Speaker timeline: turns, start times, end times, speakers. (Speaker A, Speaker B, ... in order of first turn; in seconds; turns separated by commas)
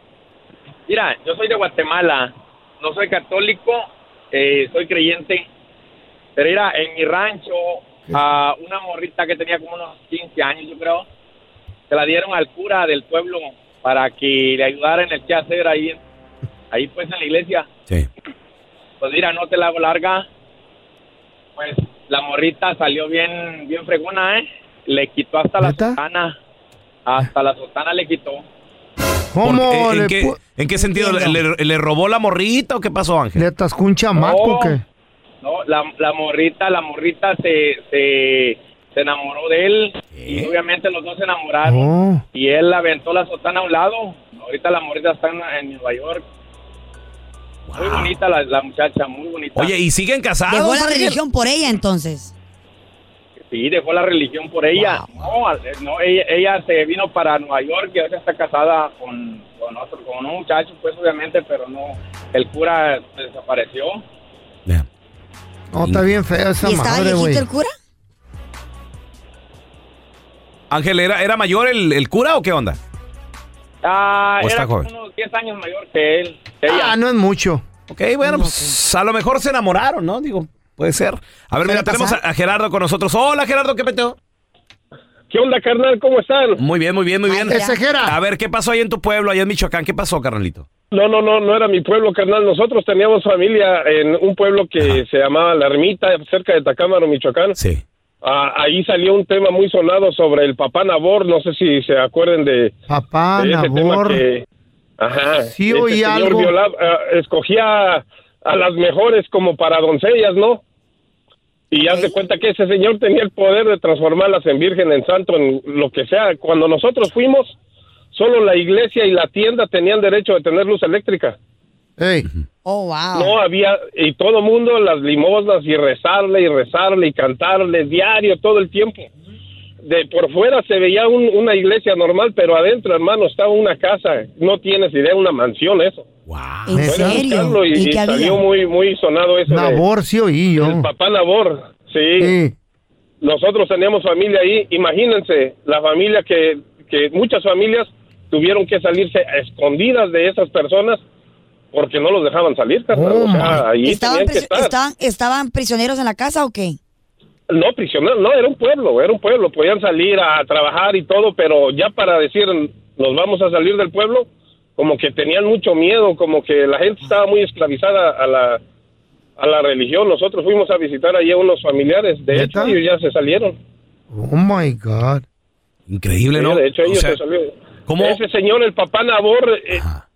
Speaker A: 0.9-5.5, Speaker A: 6.4-11.1, Speaker A: 11.9-16.0, Speaker A: 16.7-17.7, Speaker A: 19.0-20.2, Speaker A: 21.6-26.4, Speaker B: 25.6-26.0, Speaker A: 27.1-28.4, Speaker B: 29.3-30.4, Speaker C: 29.4-33.5, Speaker D: 31.0-31.3, Speaker B: 33.4-34.8, Speaker A: 34.1-34.8, Speaker A: 35.4-46.2, Speaker C: 40.1-40.5, Speaker B: 41.6-42.2, Speaker C: 47.7-48.1, Speaker A: 47.8-49.7, Speaker C: 49.6-51.2, Speaker D: 50.5-52.3, Speaker A: 53.5-64.0, Speaker D: 54.8-55.1, Speaker B: 65.7-67.5, Speaker D: 66.6-67.7, Speaker C: 70.7-72.8, Speaker A: 73.8-76.9, Speaker C: 74.4-74.9, Speaker B: 76.7-77.6, Speaker C: 77.9-84.2, Speaker D: 78.2-78.8, Speaker D: 81.7-82.2, Speaker E: 85.3-86.6, Speaker C: 86.6-90.7, Speaker D: 87.3-87.8, Speaker B: 87.5-88.2, Speaker E: 90.9-97.6, Speaker C: 97.6-97.8, Speaker E: 98.2-102.7, Speaker B: 102.9-104.2, Speaker E: 103.4-104.4, Speaker E: 105.0-110.6, Speaker B: 105.5-106.5, Speaker E: 111.7-117.6, Speaker D: 111.8-112.1, Speaker E: 118.1-121.4, Speaker B: 122.0-122.3, Speaker D: 122.7-123.4, Speaker E: 123.1-129.1, Speaker E: 129.8-136.1, Speaker C: 136.3-136.9, Speaker D: 136.7-138.4, Speaker B: 136.8-137.2, Speaker E: 136.9-139.8, Speaker B: 139.5-140.9, Speaker E: 140.6-142.3, Speaker B: 142.2-142.5, Speaker E: 143.2-151.0, Speaker E: 151.7-154.7, Speaker B: 152.9-153.7, Speaker D: 153.8-156.8, Speaker E: 157.5-168.6, Speaker E: 169.4-173.6, Speaker B: 172.3-172.8, Speaker B: 174.1-175.2, Speaker C: 175.9-177.2, Speaker E: 176.3-179.8, Speaker C: 177.9-178.2, Speaker C: 179.7-180.0